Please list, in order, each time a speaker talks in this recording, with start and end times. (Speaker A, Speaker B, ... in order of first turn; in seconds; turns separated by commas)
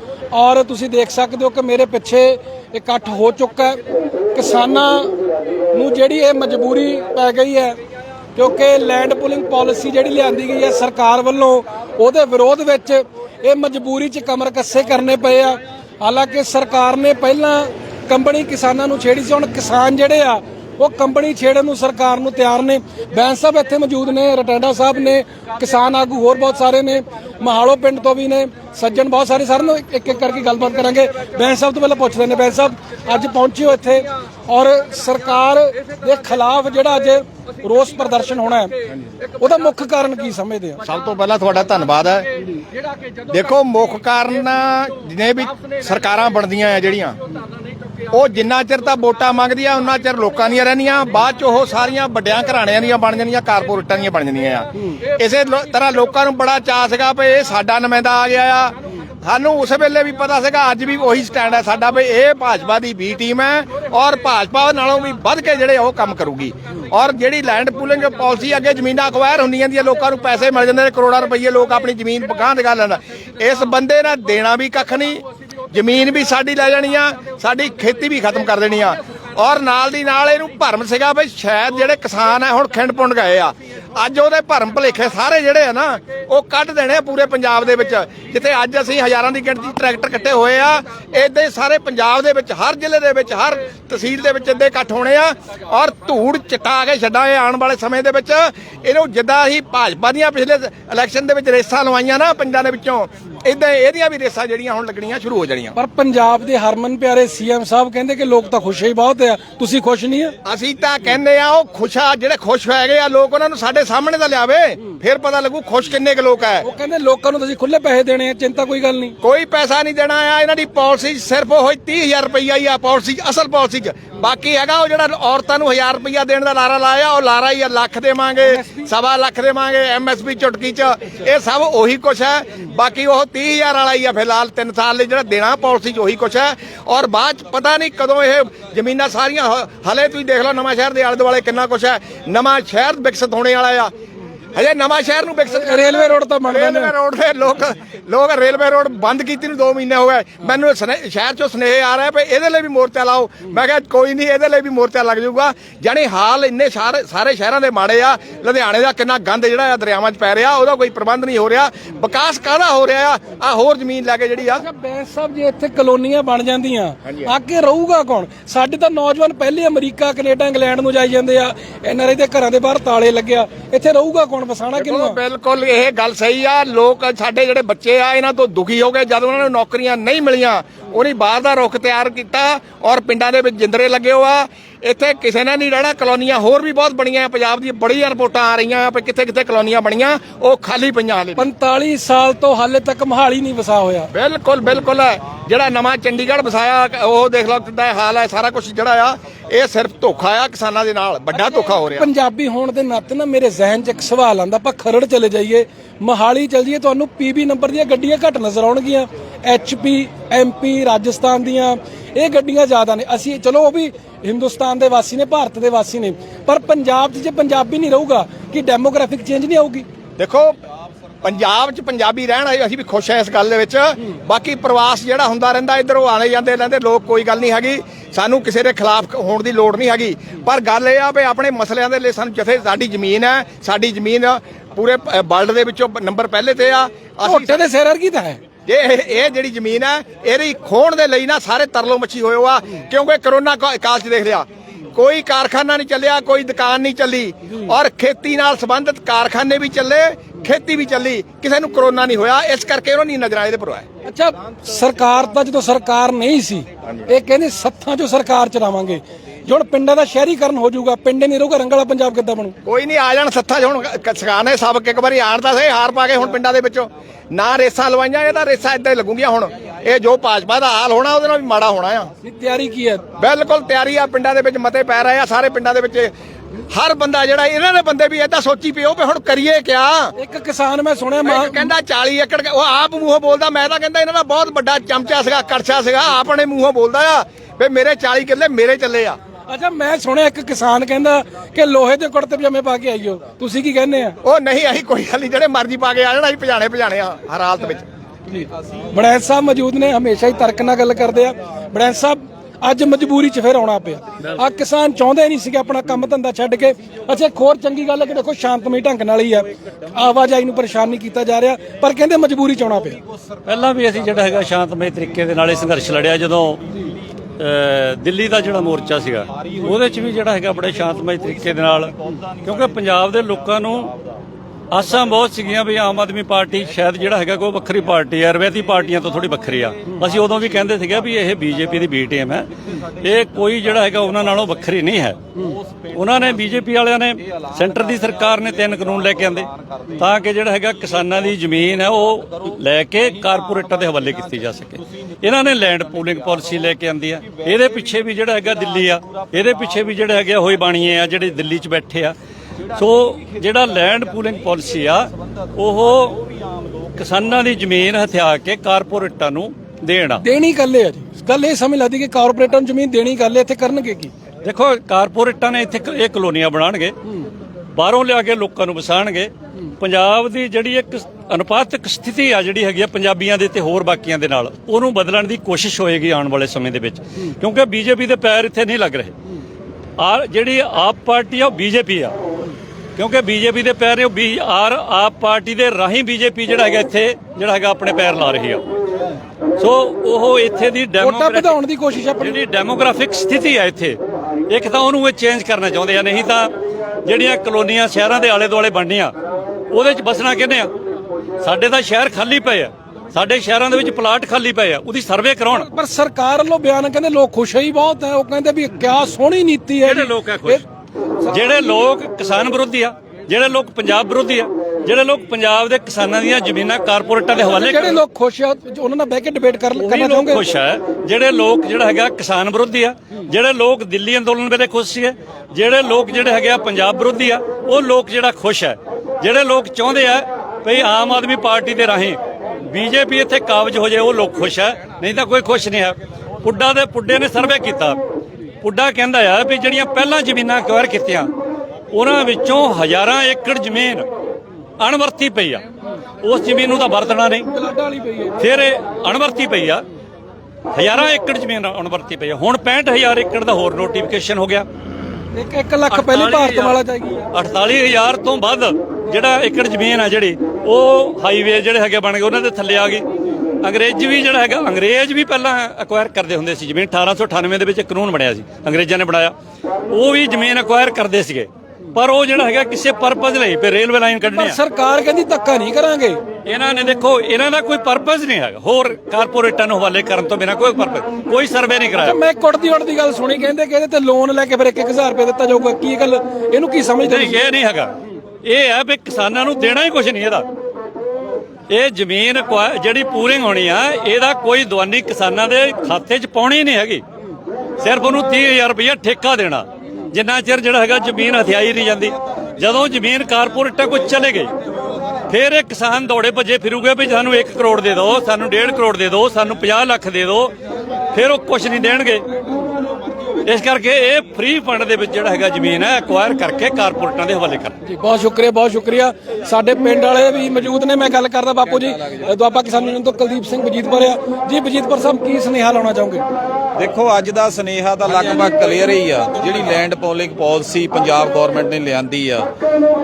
Speaker A: 0.3-3.8, Speaker A: 4.3-5.2, Speaker A: 5.7-7.8, Speaker A: 8.4-38.8, Speaker A: 39.4-40.8, Speaker B: 40.8-42.3, Speaker B: 43.3-47.2, Speaker B: 48.1-105.7, Speaker A: 105.8-110.3, Speaker B: 110.5-116.7, Speaker A: 116.6-119.2, Speaker B: 119.2-143.9, Speaker A: 128.4-128.9, Speaker B: 144.5-164.6, Speaker A: 145.5-146.9, Speaker A: 164.5-175.2, Speaker B: 174.8-191.5, Speaker A: 191.4-194.1, Speaker B: 194.1-202.1, Speaker A: 201.3-219.8, Speaker B: 220.2-220.6, Speaker B: 221.2-237.6, Speaker A: 237.2-238.4, Speaker B: 238.7-253.9, Speaker A: 254.1-262.6, Speaker B: 262.6-272.1, Speaker A: 272.2-273.0, Speaker B: 273.2-276.1, Speaker B: 276.7-280.1, Speaker A: 280.2-281.6, Speaker B: 281.2-289.2, Speaker A: 289.5-294.2, Speaker B: 294.2-297.9, Speaker A: 298.3-313.0, Speaker C: 313.5-316.6, Speaker C: 317.4-323.9, Speaker C: 324.7-332.5, Speaker C: 333.0-335.2, Speaker C: 335.9-352.2, Speaker C: 352.7-356.2, Speaker C: 357.0-360.2, Speaker A: 360.2-364.1, Speaker C: 364.4-366.9, Speaker C: 367.8-379.1, Speaker C: 380.0-382.1, Speaker C: 383.0-388.6, Speaker C: 389.6-391.6, Speaker A: 391.0-392.4, Speaker C: 392.2-396.5, Speaker C: 397.1-399.1, Speaker C: 399.7-400.7, Speaker C: 401.4-405.7, Speaker A: 405.5-410.6, Speaker C: 409.8-410.6, Speaker C: 411.3-418.0, Speaker A: 417.4-420.4, Speaker C: 419.8-438.0, Speaker C: 438.6-441.3, Speaker C: 441.9-444.1, Speaker C: 444.8-445.6, Speaker C: 446.2-447.5, Speaker A: 447.5-448.4, Speaker C: 448.4-449.8, Speaker C: 450.7-454.7, Speaker A: 455.3-457.3, Speaker C: 455.9-456.8, Speaker C: 457.3-463.1, Speaker C: 463.6-469.3, Speaker C: 469.9-474.6, Speaker A: 474.3-476.2, Speaker C: 476.4-482.2, Speaker A: 482.0-487.4, Speaker C: 487.0-490.5, Speaker C: 491.7-497.0, Speaker C: 497.8-504.5, Speaker C: 505.3-510.5, Speaker C: 511.1-512.2, Speaker C: 513.5-517.8, Speaker A: 517.9-526.2, Speaker D: 526.8-532.5